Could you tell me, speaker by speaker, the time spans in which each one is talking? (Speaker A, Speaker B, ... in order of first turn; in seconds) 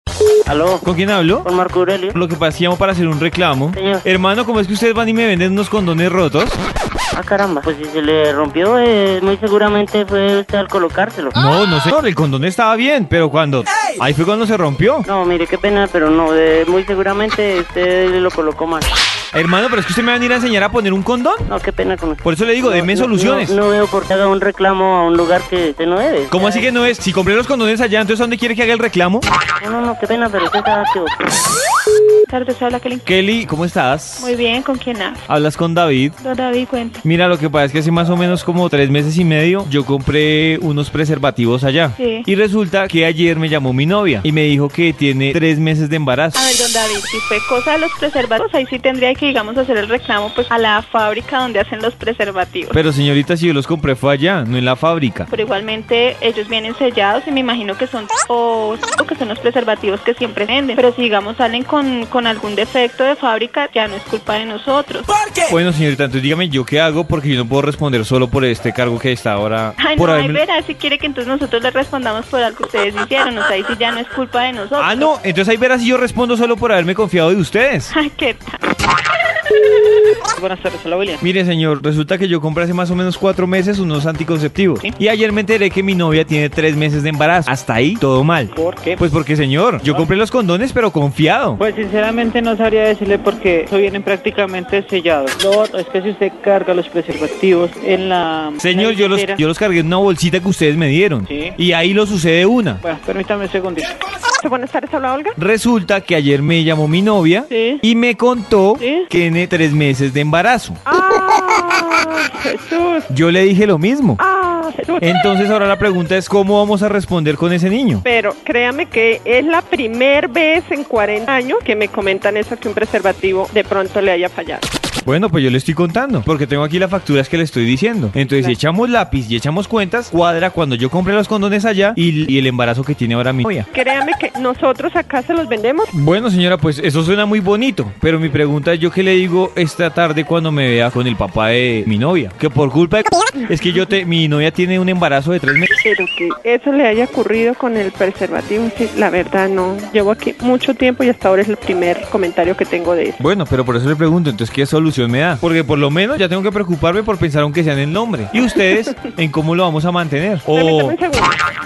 Speaker A: 0.5-0.9, 1.4-2.1, 3.7-4.0, 7.1-11.4, 15.0-18.9, 21.5-26.7, 29.6-31.1
Speaker B: 0.8-1.5, 2.1-6.6, 11.3-15.1, 19.3-21.4, 22.2-23.6, 26.3-29.2, 33.0-34.3, 35.3-36.1, 37.0-46.4, 52.7-55.3, 65.5-70.4, 74.8-77.9, 81.2-91.6, 98.6-102.8, 105.4-110.8, 113.1-114.2, 115.0-118.0, 125.0-133.7, 135.9-145.7, 153.2-160.9
Speaker C: 32.3-33.0, 34.2-35.3, 36.2-37.0, 42.0-42.3, 46.3-52.8, 55.3-65.1, 69.8-75.1, 77.9-78.6
Speaker D: 80.3-81.2, 88.5-89.0, 89.8-90.1, 91.6-99.4, 101.3-101.5, 102.8-103.9, 107.5-107.8, 108.8-109.0
Speaker E: 104.4-105.3, 110.9-113.0, 114.2-115.0, 118.1-124.6, 133.7-135.9, 145.8-153.2, 160.5-161.3